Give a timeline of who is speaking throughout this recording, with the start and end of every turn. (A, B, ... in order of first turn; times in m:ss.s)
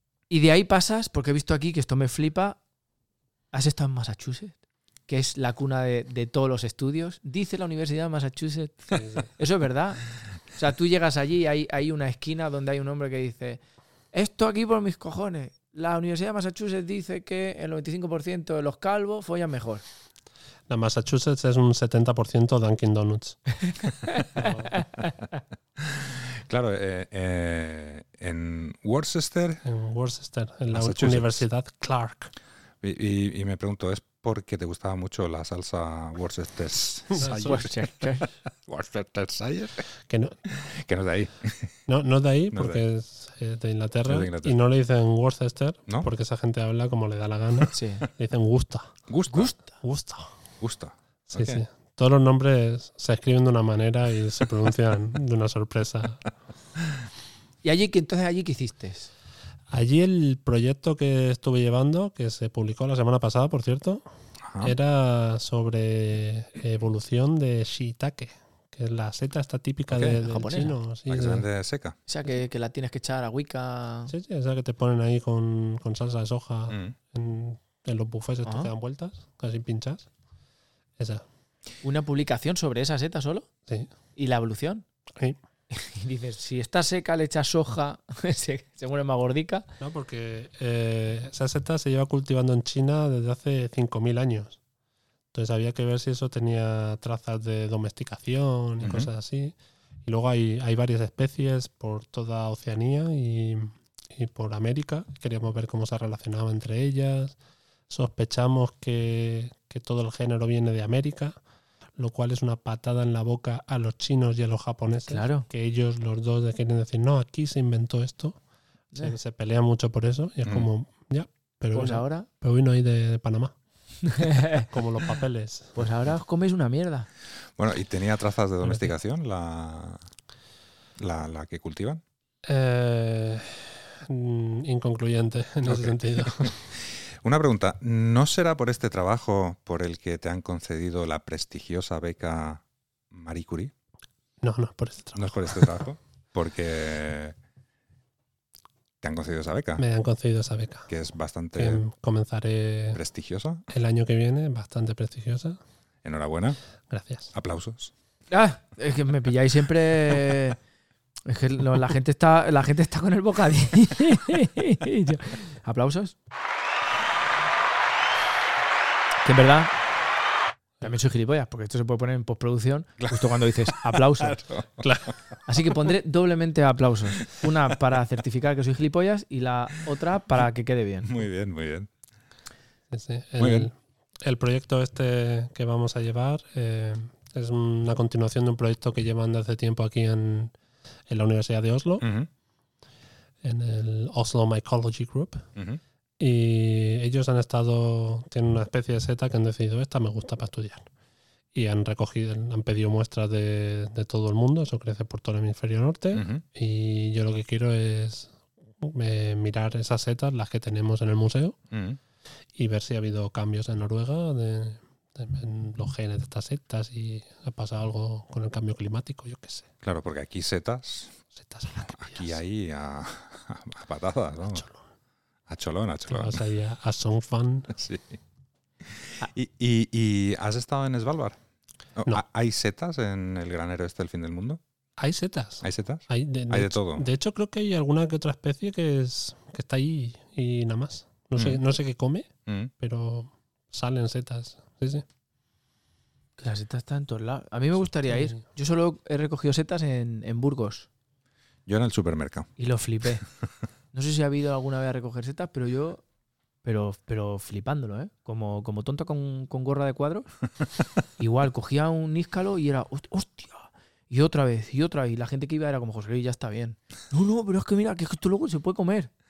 0:00.3-0:02.6 A
0:03.5-0:04.6 A
0:05.1-0:13.6 A
0:08.9-0:09.3 B
0:14.1-0:19.8 A
0:20.7-0:23.4 B
0:24.1-0:24.4 A
0:24.3-0:24.7 B
0:25.8-0:29.6 C
0:29.6-0:32.3 B
0:30.7-0:31.4 C
0:32.8-0:39.8 C
0:37.2-0:37.6 B
0:37.2-0:38.2 A
0:40.1-0:40.4 B
0:40.5-0:41.7 C
0:41.9-0:48.9 B
0:42.5-0:42.8 C
0:44.1-0:44.6 C
0:47.7-0:48.0 A
0:49.1-0:49.5 C
0:49.3-0:49.7 A
0:49.8-0:50.3 B
0:50.6-0:51.6 C
0:51.3-0:56.2 B
0:57.6-0:59.1 A
0:59.7-1:04.0 B
1:04.4-1:04.7 C
1:04.6-1:11.4 B
1:09.9-1:10.2 C
1:10.2-1:10.7 A
1:11.1-1:12.0 C
1:12.1-1:14.1 A
1:14.1-1:20.1 B
1:16.7-1:17.0 C
1:18.4-1:18.7 A
1:21.0-1:21.2 B
1:21.8-1:23.5 A
1:24.2-1:24.8 A
1:25.7-1:29.7 A
1:29.8-1:34.6 B
1:35.3-1:47.4 B
1:38.8-1:39.1 C
1:47.9-1:51.4 B
1:52.0-1:58.4 B
1:55.1-1:55.4 A
1:59.0-2:03.5 B
2:01.7-2:02.3 A
2:04.1-2:04.6 A
2:04.5-2:05.8 B
2:05.8-2:07.1 A
2:07.6-2:10.0 C
2:11.0-2:12.0 C
2:12.4-2:16.6 B
2:15.6-2:16.5 C
2:17.2-2:23.7 C
2:24.4-2:25.7 B
2:25.1-2:27.3 C
2:29.0-2:29.8 C
2:29.8-2:30.9 B
2:30.9-2:31.8 C
2:31.6-2:33.0 B
2:32.9-2:33.6 C
2:33.7-2:35.6 B
2:36.0-2:36.6 C
2:36.9-2:37.3 B
2:37.3-2:37.9 C
2:38.3-2:40.6 A
2:41.2-2:46.1 A
2:49.2-2:49.7 A
2:50.8-2:54.4 A
2:53.0-2:55.1 C
2:54.8-2:55.1 B
2:55.5-3:01.1 A
3:01.0-3:01.9 C
3:02.9-3:10.5 B
3:03.4-3:03.7 C
3:11.1-3:12.0 B
3:12.0-3:12.3 C
3:13.4-3:15.4 B
3:15.6-3:15.8 C
3:16.2-3:20.9 B
3:21.5-3:31.6 B
3:26.1-3:26.4 C
3:31.7-3:32.0 C
3:32.5-3:39.7 B
3:39.8-3:41.1 C
3:41.4-3:42.4 B
3:41.8-3:44.6 C
3:44.5-3:44.8 B
3:45.5-3:46.4 C
3:46.1-3:47.7 B
3:47.7-3:48.2 C
3:48.8-3:51.4 C
3:52.0-3:54.6 C
3:55.0-4:05.0 B
3:55.6-3:57.0 C
4:01.4-4:01.6 C
4:02.4-4:02.7 C
4:06.4-4:10.9 A
4:08.1-4:08.4 B
4:11.7-4:12.5 C
4:12.6-4:13.2 A
4:13.9-4:16.0 A
4:16.6-4:20.3 A
4:21.2-4:29.1 A